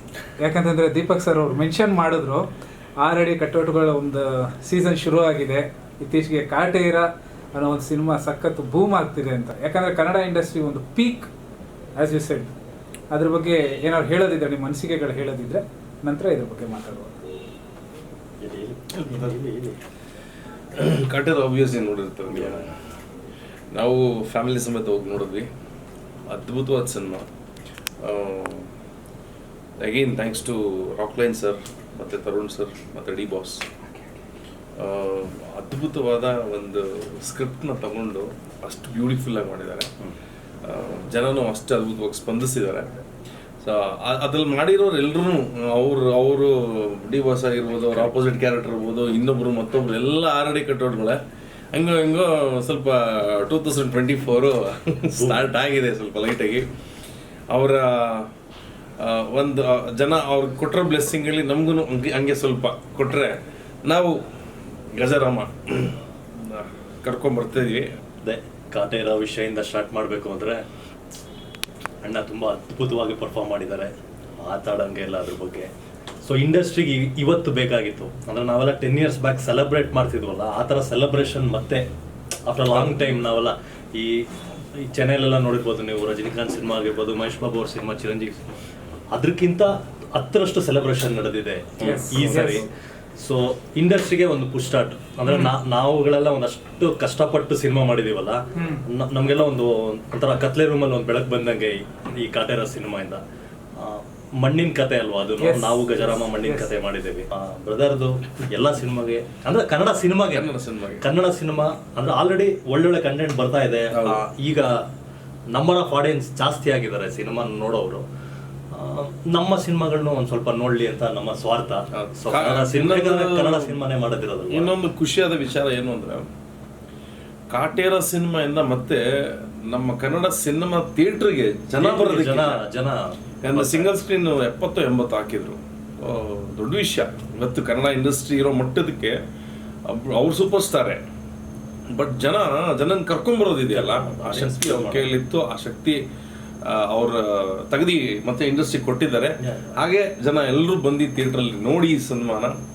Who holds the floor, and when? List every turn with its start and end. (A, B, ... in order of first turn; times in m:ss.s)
0:00.4-0:02.5 A
0:03.0-0:11.3 A
0:12.0-0:12.5 A
0:13.1-0:17.2 A
0:18.4-0:19.8 B
0:20.8-0:22.8 C
0:22.3-0:22.7 B
0:23.7-0:25.5 C
0:26.3-0:27.3 C
0:28.0-0:28.7 C
0:29.8-0:33.7 C
0:34.8-0:39.9 C
0:40.6-0:42.9 C
0:43.6-0:51.2 C
0:51.7-0:56.7 C
0:55.2-0:55.4 B
0:57.5-0:58.3 C
0:59.0-1:04.1 C
1:05.0-1:07.9 C
1:08.2-1:10.6 B
1:12.0-1:15.7 B
1:16.2-1:21.8 B
1:22.5-1:24.3 B
1:24.8-1:28.6 B
1:29.1-1:43.2 B
1:31.8-1:32.7 A
1:38.6-1:38.8 A
1:43.8-1:54.8 B
1:45.4-1:46.7 A
1:50.3-1:51.1 C
1:53.9-1:54.2 C
1:55.5-1:58.1 B
1:58.7-2:04.7 B
2:01.9-2:03.8 C
2:04.5-2:06.2 C
2:07.5-2:12.6 C
2:11.8-2:13.9 B
2:13.4-2:19.2 C
2:19.9-2:21.0 C
2:21.9-2:26.0 C
2:23.7-2:25.1 B
2:26.7-2:32.6 C
2:29.4-2:29.7 B